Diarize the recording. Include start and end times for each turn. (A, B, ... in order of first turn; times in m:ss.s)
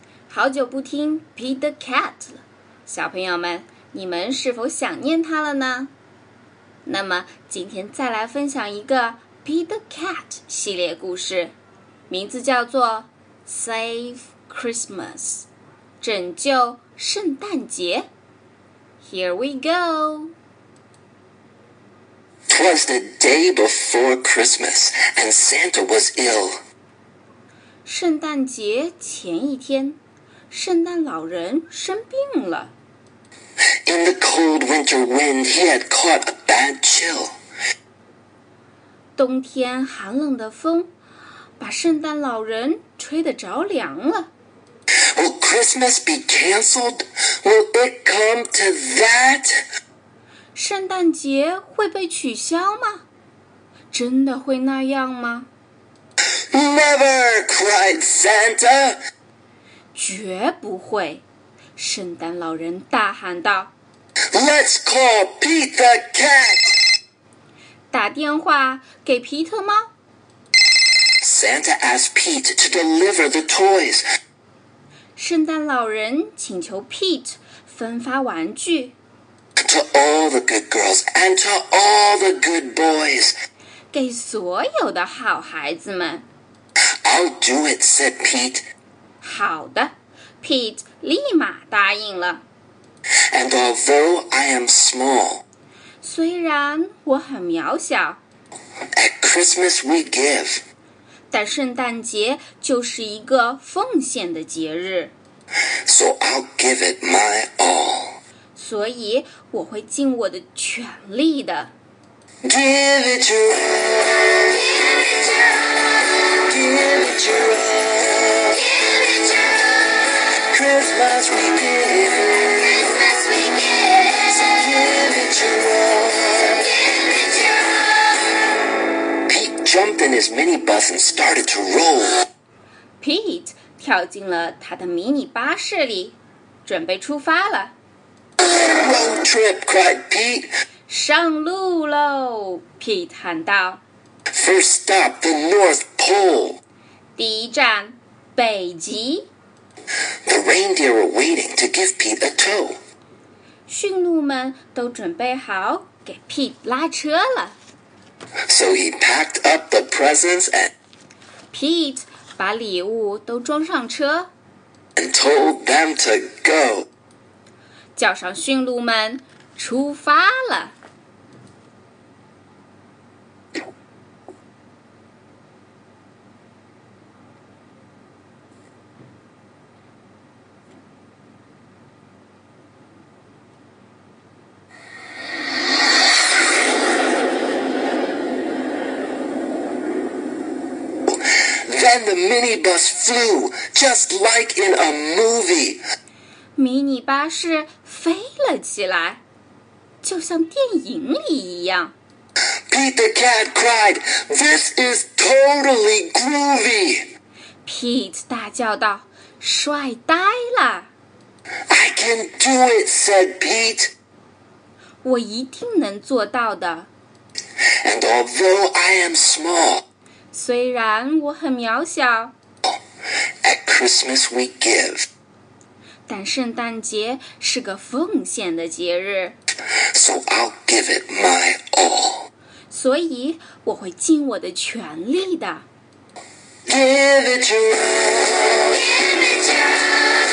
0:00.3-0:05.9 A
0:06.9-0:11.5 A
0:12.1-0:15.5 A
0:16.0-0:18.1 A
0:19.0-0:20.3 A
0:22.5-0:26.6 B
0:27.8-0:30.0 A
0:30.5-0:32.7 A
0:33.8-0:37.4 B
0:39.2-0:40.9 A
0:41.6-0:44.3 A
0:45.2-0:49.6 B
0:50.6-0:53.0 A
0:53.9-0:55.5 A
0:56.5-0:59.0 B
1:00.0-1:01.2 A
1:01.8-1:03.7 A
1:04.3-1:06.8 B
1:07.9-1:09.9 A
1:11.2-1:14.0 B
1:15.2-1:19.0 A
1:19.6-1:23.3 B
1:23.9-1:26.3 A
1:27.0-1:28.6 B
1:29.2-1:32.4 A
1:33.3-1:35.4 B
1:36.0-1:38.2 A
1:38.9-1:40.6 B
1:41.3-1:45.1 A
1:45.9-1:48.2 B
1:48.6-1:51.7 A
1:52.4-1:54.1 B
1:56.5-1:58.6 B
2:00.5-2:02.7 B
2:04.2-2:06.6 B
2:09.3-2:12.3 B
2:13.0-2:17.8 A
2:18.5-2:20.5 B
2:20.9-2:23.8 A
2:24.3-2:26.6 B
2:27.2-2:29.3 A
2:30.3-2:32.8 B
2:33.7-2:37.6 A
2:38.5-2:40.7 B
2:41.5-2:44.3 A
2:45.0-2:46.9 B
2:48.0-2:50.8 A
3:11.1-3:15.8 B
3:16.6-3:19.2 A
3:20.0-3:21.9 A
3:22.7-3:27.1 B
3:27.6-3:30.9 A
3:31.7-3:33.9 B
3:35.0-3:36.9 A
3:37.8-3:39.8 B
3:40.3-3:42.4 A
3:43.4-3:45.1 B
3:46.1-3:49.4 A
3:49.9-3:52.3 B
3:52.7-3:55.7 A
3:56.7-3:58.7 B